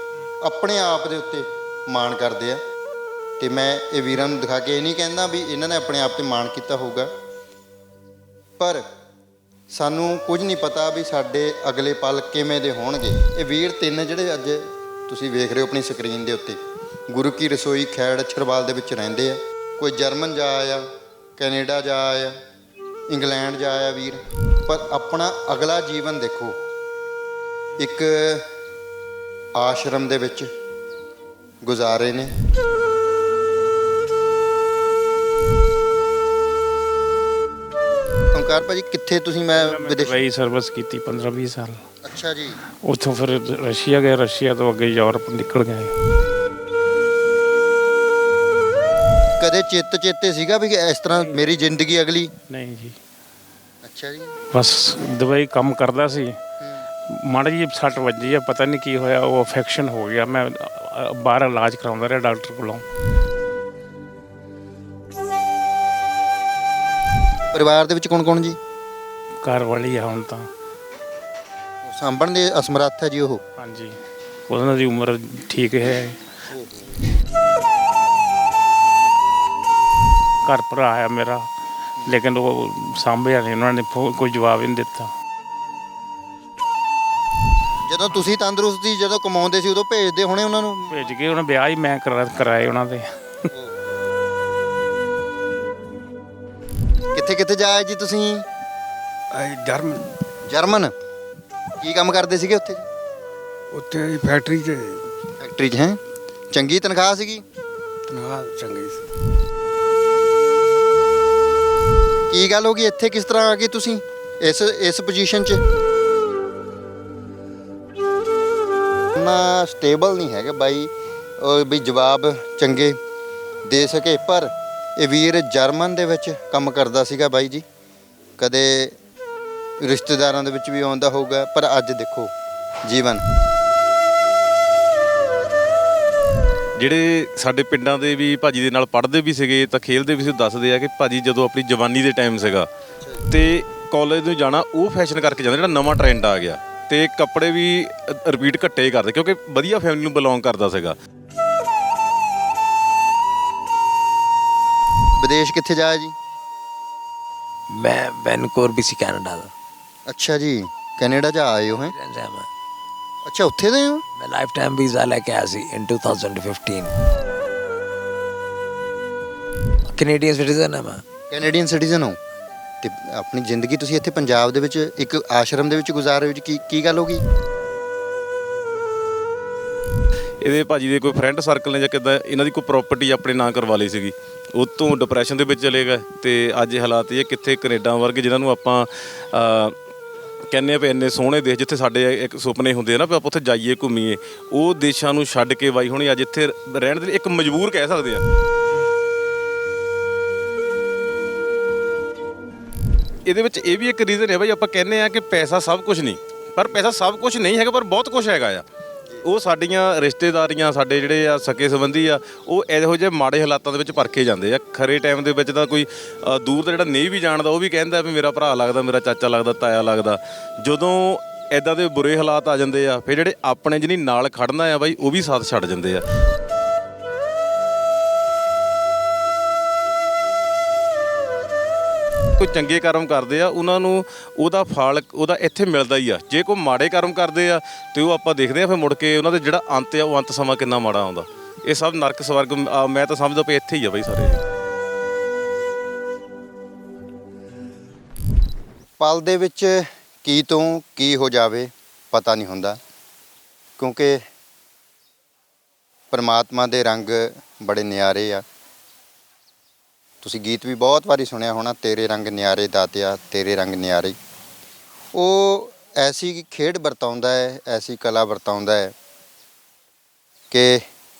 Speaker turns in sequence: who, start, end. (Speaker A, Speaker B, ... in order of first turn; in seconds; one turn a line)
Speaker A: 0.4-2.6
Speaker A: 3.4-7.1
Speaker A: 8.6-8.8
Speaker A: 9.7-16.6
Speaker A: 17.1-20.9
Speaker A: 21.4-22.3
Speaker A: 23.1-26.5
Speaker A: 27.8-28.4
Speaker A: 29.6-30.5
Speaker A: 31.6-32.3
Speaker A: 38.3-40.1
Speaker B: 39.5-41.8
Speaker A: 42.0-42.6
Speaker B: 42.8-45.9
Speaker A: 49.4-52.3
Speaker B: 51.1-51.5
Speaker B: 52.5-52.9
Speaker A: 53.8-54.3
Speaker B: 54.5-56.3
Speaker B: 57.1-62.8
Speaker A: 67.5-68.6
Speaker B: 69.4-70.5
Speaker A: 71.8-73.4
Speaker B: 73.6-74.0
Speaker B: 74.5-76.2
Speaker A: 76.5-76.8
Speaker B: 80.4-81.5
Speaker B: 82.0-85.1
Speaker A: 87.9-91.0
Speaker B: 90.9-93.5
Speaker A: 97.1-98.4
Speaker C: 99.3-100.0
Speaker A: 100.5-100.9
Speaker A: 101.8-102.8
Speaker C: 103.7-105.0
Speaker A: 105.4-106.0
Speaker A: 106.5-107.4
Speaker C: 108.1-109.0
Speaker A: 112.3-115.6
Speaker A: 119.2-123.0
Speaker A: 123.7-127.6
Speaker A: 128.4-128.9
Speaker A: 129.8-132.3
Speaker A: 132.8-133.2
Speaker D: 136.8-142.7
Speaker D: 143.3-150.9
Speaker A: 155.2-156.1
Speaker E: 157.7-159.5
Speaker A: 160.1-161.9
Speaker E: 161.7-162.5
Speaker A: 163.2-164.0
Speaker E: 164.2-166.9
Speaker E: 169.9-171.0
Speaker A: 171.3-172.2
Speaker A: 172.8-177.2
Speaker D: 180.4-189.7
Speaker D: 190.5-198.2
Speaker D: 203.2-208.6
Speaker D: 209.2-226.0
Speaker D: 232.4-244.4
Speaker A: 249.0-252.8
Speaker A: 253.8-254.2
Speaker A: 256.1-258.4
Speaker A: 260.2-264.1
Speaker A: 265.1-268.9
Speaker A: 270.5-270.8